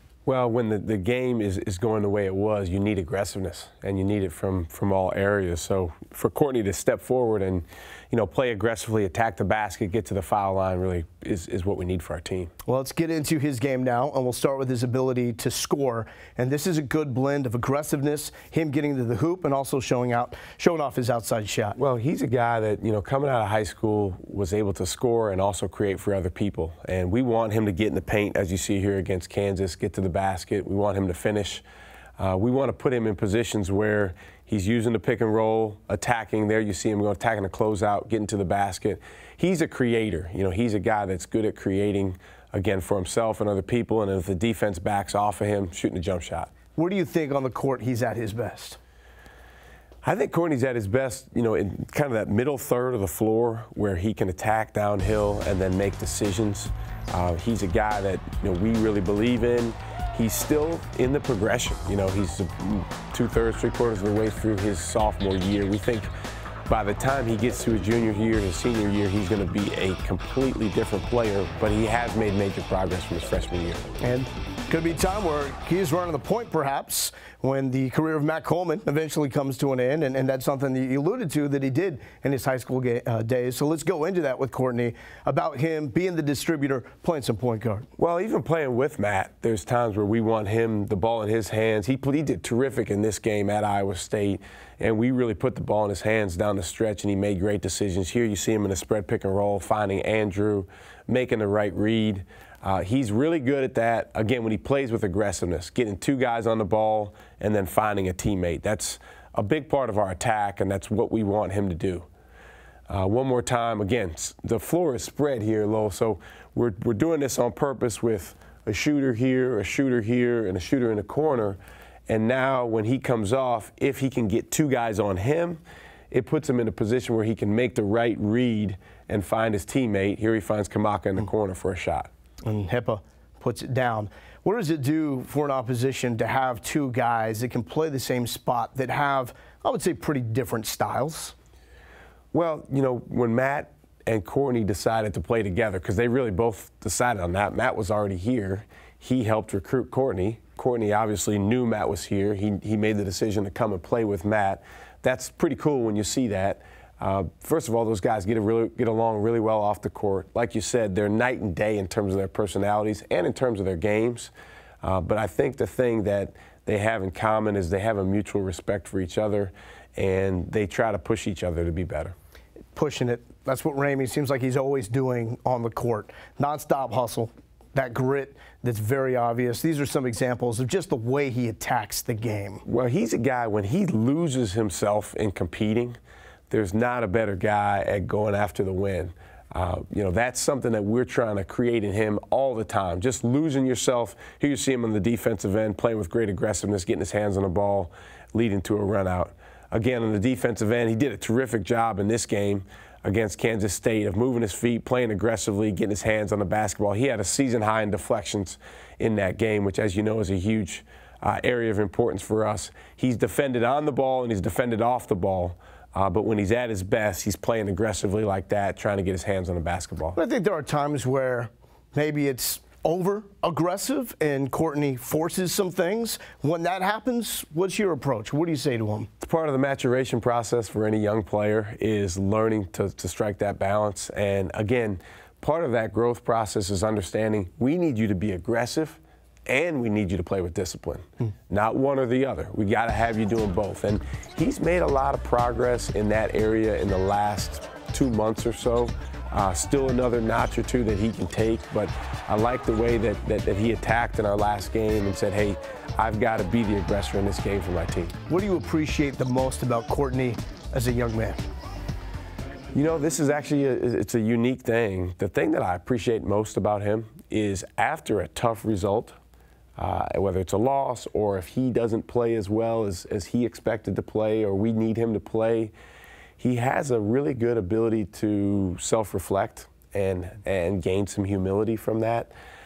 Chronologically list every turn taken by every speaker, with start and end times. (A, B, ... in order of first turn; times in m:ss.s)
0:00.2-0:12.5 A
0:12.7-0:21.8 B
0:21.8-0:31.6 A
0:32.2-0:46.5 A
0:46.8-0:48.8 B
0:50.0-1:06.1 A
1:06.7-1:13.9 A
1:14.0-1:27.9 B
1:28.0-1:52.1 A
1:52.9-2:12.1 A
2:12.4-2:21.3 B
2:22.3-2:52.1 A
2:52.8-3:02.6 B
3:02.6-3:06.0 A
3:06.5-3:40.2 A
3:40.2-3:49.1 B
3:49.2-4:18.2 A
4:18.3-4:21.5 B
4:22.7-4:29.2 A
4:29.8-4:35.7 A
4:36.4-4:42.3 A